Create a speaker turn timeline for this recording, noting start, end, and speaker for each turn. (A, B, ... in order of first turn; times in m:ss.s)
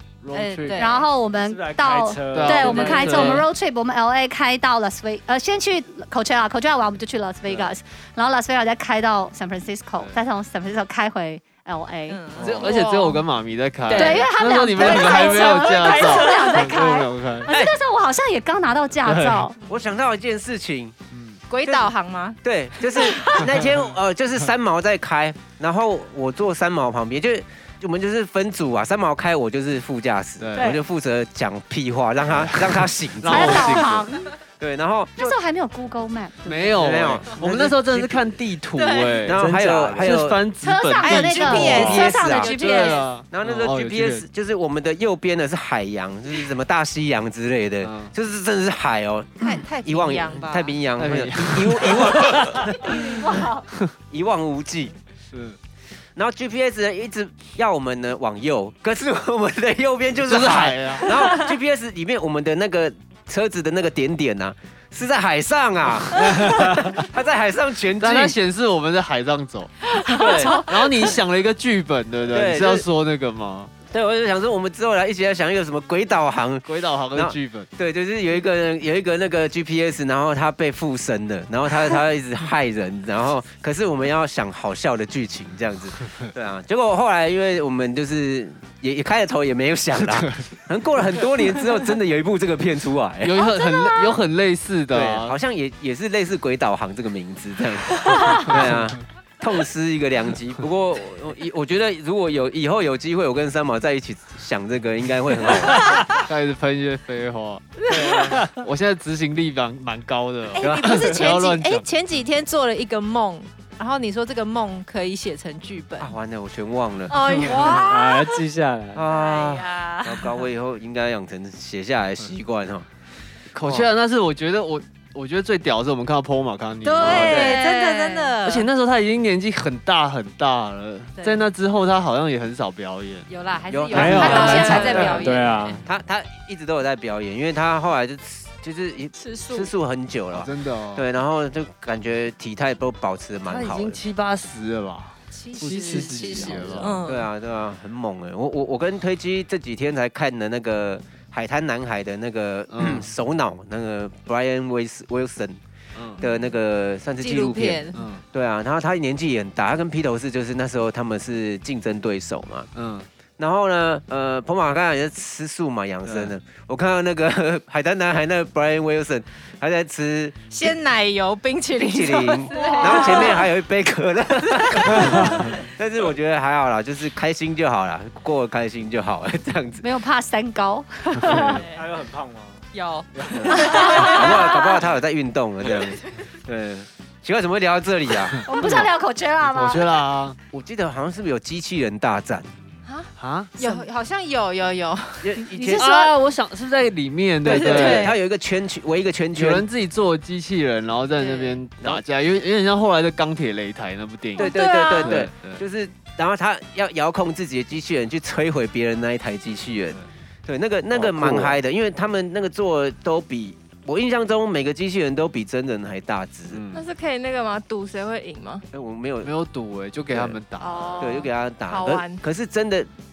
0:00.2-0:00.8 A
0:00.3-0:01.0 B
0:00.7-0:12.2 C
0:01.4-0:03.4 D
0:02.3-0:03.4 A
0:12.1-0:13.1 B
0:12.4-0:17.5 A
0:12.6-0:13.2 E
0:13.9-0:16.5 B
0:13.9-0:19.6 C
0:19.0-0:19.5 A
0:19.7-0:21.0 F
0:21.1-0:21.4 A
0:21.5-0:23.4 B
0:22.4-0:33.9 F
0:23.4-0:23.9 A
0:30.4-0:30.8 A
0:32.3-0:34.0 A
0:33.2-0:34.3 C
0:34.6-0:35.4 F
0:35.2-0:37.1 C
0:36.5-0:44.2 A
0:36.8-0:38.4 F
0:38.7-0:39.3 B
0:39.2-0:40.4 F
0:39.3-0:40.1 D
0:40.6-0:43.0 C
0:40.9-0:43.0 B
0:41.6-0:42.6 F
0:43.3-0:53.0 F
0:47.8-0:48.1 A
0:49.4-0:50.8 B
0:51.0-0:53.1 A
0:52.6-0:53.6 C
0:54.1-0:54.9 F
0:55.3-0:55.6 A
0:56.2-1:08.4 F
1:00.3-1:01.2 A
1:08.0-1:09.8 A
1:10.1-1:10.6 F
1:10.1-1:10.6 C
1:10.6-1:13.7 A
1:12.3-1:12.8 F
1:13.9-1:33.4 F
1:16.6-1:17.7 A
1:30.0-1:30.4 A
1:33.2-1:35.3 A
1:33.4-1:34.1 C
1:34.9-1:45.8 F
1:38.5-1:38.9 A
1:46.2-1:51.9 A
1:47.9-1:48.4 F
1:48.0-1:48.3 B
1:50.6-1:56.1 B
1:50.6-1:51.1 F
1:56.0-1:57.8 F
1:57.1-1:58.4 B
1:57.5-1:59.0 D
1:58.9-2:02.9 F
1:59.1-2:00.4 B
2:03.5-2:07.6 A
2:03.6-2:03.9 F
2:06.8-2:08.7 B
2:07.0-2:07.6 F
2:07.6-2:08.2 E
2:08.4-2:13.3 A
2:11.2-2:11.4 B
2:13.3-2:15.8 B
2:13.7-2:15.2 F
2:13.9-2:15.8 D
2:14.0-2:15.5 E
2:14.4-2:15.3 A
2:15.8-2:24.0 F
2:19.2-2:19.7 B
2:20.3-2:21.0 A
2:23.5-2:27.0 A
2:25.3-2:27.2 B
2:27.0-2:35.6 F
2:32.7-2:33.1 A
2:36.0-2:36.2 A
2:36.2-2:42.7 F
2:37.2-2:38.0 B
2:37.9-2:38.2 A
2:42.7-2:43.1 A
2:43.4-2:50.7 F
2:46.0-2:46.3 A
2:50.5-2:53.5 B
2:51.8-2:59.8 F
2:55.0-2:55.5 A
2:59.8-3:01.6 C
3:01.3-3:02.6 D
3:02.7-3:04.6 B
3:03.1-3:03.6 D
3:03.3-3:08.8 F
3:03.7-3:04.2 C
3:08.4-3:10.0 C
3:08.6-3:08.8 A
3:09.4-3:10.4 A
3:10.5-3:12.5 F
3:13.2-3:13.6 A
3:13.6-3:15.9 B
3:15.2-3:15.9 F
3:15.7-3:18.1 A
3:17.4-3:18.1 B
3:17.4-3:19.6 F
3:19.3-3:25.6 A
3:21.2-3:21.6 B
3:24.4-3:25.2 E
3:24.4-3:36.6 F
3:30.9-3:31.6 A
3:36.5-3:36.8 A
3:36.7-3:38.6 E
3:38.7-3:39.3 F
3:39.2-3:41.1 A
3:40.1-3:40.4 F
3:40.6-3:42.2 E
3:40.8-3:41.1 B
3:41.0-3:42.9 F